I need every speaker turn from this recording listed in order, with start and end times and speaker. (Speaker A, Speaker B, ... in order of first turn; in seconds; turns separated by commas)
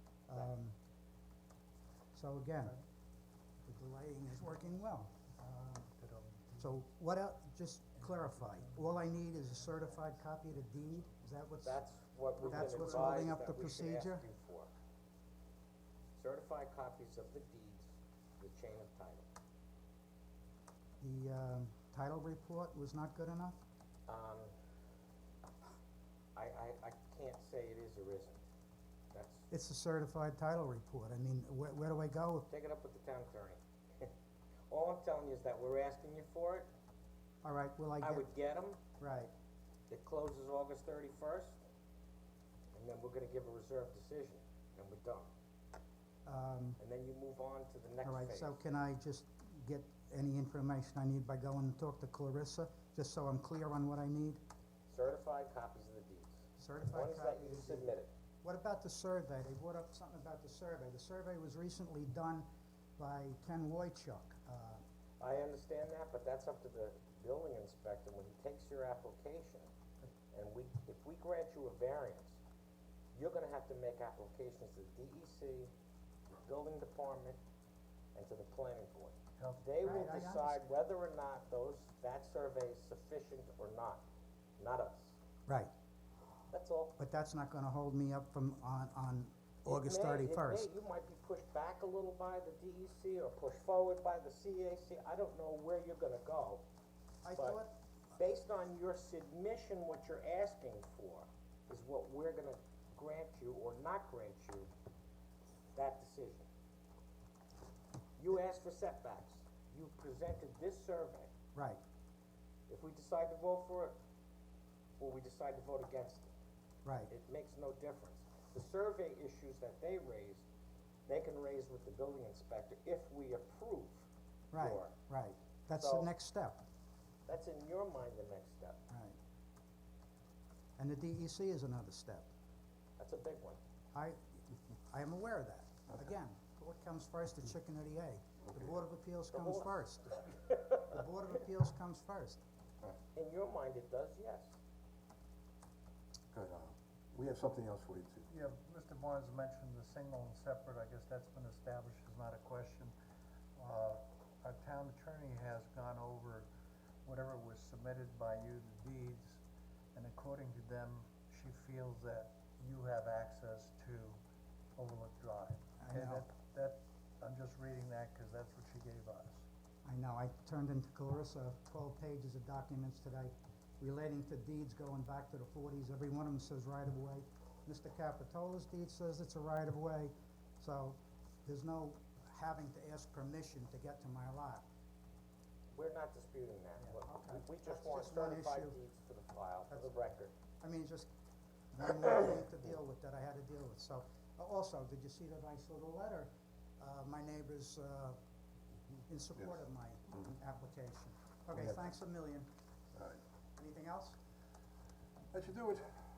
Speaker A: 0.3-0.8, Speaker A: 2.1-2.8, Speaker A: 3.6-5.9, Speaker B: 5.9-6.7, Speaker A: 6.6-11.8, Speaker B: 8.0-9.0, Speaker C: 11.6-14.7, Speaker A: 12.4-14.3, Speaker C: 16.1-19.3, Speaker A: 21.0-23.6, Speaker C: 24.1-24.5, Speaker C: 26.4-28.5, Speaker C: 29.1-29.5, Speaker A: 29.5-32.5, Speaker C: 32.5-34.1, Speaker C: 34.7-36.7, Speaker A: 37.4-38.3, Speaker C: 38.0-38.8, Speaker A: 39.0-39.3, Speaker C: 39.9-41.6, Speaker C: 42.7-45.3, Speaker A: 46.3-46.8, Speaker C: 46.8-48.6, Speaker A: 48.0-54.4, Speaker C: 54.9-58.1, Speaker A: 56.6-64.8, Speaker C: 65.2-69.7, Speaker C: 70.3-72.4, Speaker C: 73.1-75.7, Speaker C: 76.3-77.4, Speaker C: 78.1-84.1, Speaker B: 79.4-79.7, Speaker A: 79.8-80.6, Speaker C: 84.6-85.2, Speaker A: 85.5-85.7, Speaker C: 86.5-87.0, Speaker A: 87.0-90.7, Speaker C: 89.7-96.7, Speaker A: 97.2-97.7, Speaker C: 97.3-97.6, Speaker C: 98.2-104.7, Speaker C: 105.7-106.5, Speaker C: 108.2-111.3, Speaker A: 111.5-111.8, Speaker C: 112.7-114.0, Speaker C: 115.0-116.3, Speaker A: 116.8-117.1, Speaker C: 117.1-120.5, Speaker C: 121.1-125.0, Speaker A: 124.5-126.6, Speaker C: 125.8-126.1, Speaker C: 127.3-128.8, Speaker A: 128.9-129.2, Speaker A: 130.8-132.3, Speaker C: 133.0-133.6, Speaker A: 133.9-142.4, Speaker C: 139.3-140.8, Speaker C: 142.8-144.6, Speaker D: 146.3-148.3, Speaker B: 148.3-153.0, Speaker B: 153.6-156.5, Speaker B: 157.1-159.4, Speaker B: 159.9-164.2, Speaker B: 164.8-169.5, Speaker A: 165.8-166.3, Speaker A: 169.8-184.6, Speaker C: 185.7-190.3, Speaker A: 186.8-188.8, Speaker A: 190.6-191.1, Speaker A: 191.7-198.2, Speaker A: 199.1-202.5, Speaker D: 202.9-203.2, Speaker A: 203.6-204.2, Speaker D: 205.3-206.1